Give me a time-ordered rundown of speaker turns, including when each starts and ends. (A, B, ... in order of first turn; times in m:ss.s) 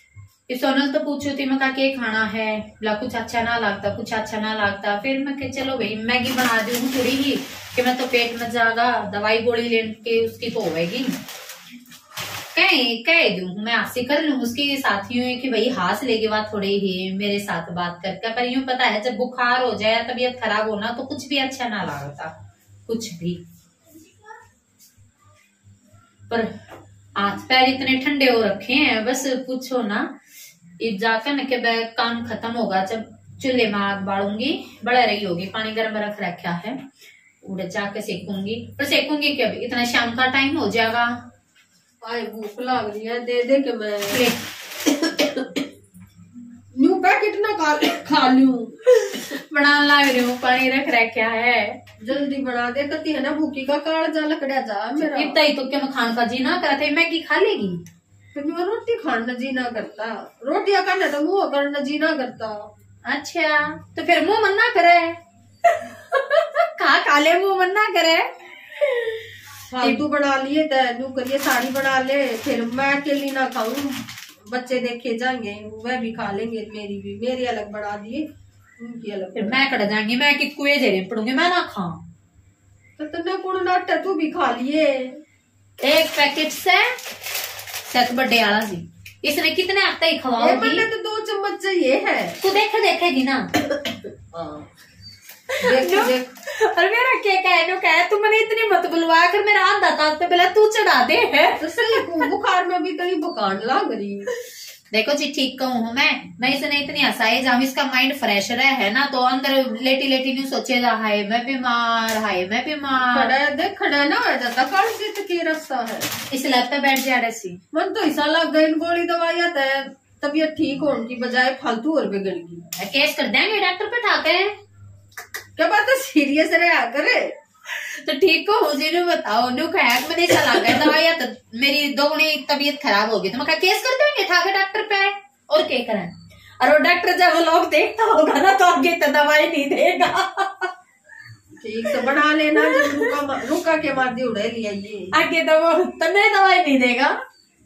0:00.5-0:11.1 A
0:12.5-0:22.3 A
0:22.9-0:23.4 A
0:27.2-0:30.1 A
0:30.8-0:36.8 A
0:37.4-0:41.1 A
0:42.0-0:44.3 B
0:44.1-0:44.4 A
0:45.0-0:45.4 B
0:46.7-0:48.8 B
0:48.9-0:51.8 A
0:52.0-0:55.4 B
0:55.0-0:57.9 A
0:58.3-1:02.6 B
1:03.0-1:10.0 A
1:09.8-1:18.2 B
1:18.8-1:19.6 B
1:19.3-1:22.0 A
1:23.0-1:25.2 B
1:25.8-1:26.9 A
1:27.9-1:30.8 A
1:30.4-1:32.4 B
1:32.4-1:33.5 A
1:33.8-1:34.7 B
1:35.5-1:42.2 A
1:35.6-1:36.3 B
1:41.6-1:44.3 B
1:44.9-1:53.3 A
1:53.0-1:56.1 B
1:56.3-1:57.6 A
1:57.7-2:02.6 B
2:02.7-2:04.5 A
2:05.6-2:07.3 B
2:07.7-2:20.7 A
2:21.6-2:25.1 B
2:22.6-2:23.4 A
2:25.1-2:27.1 A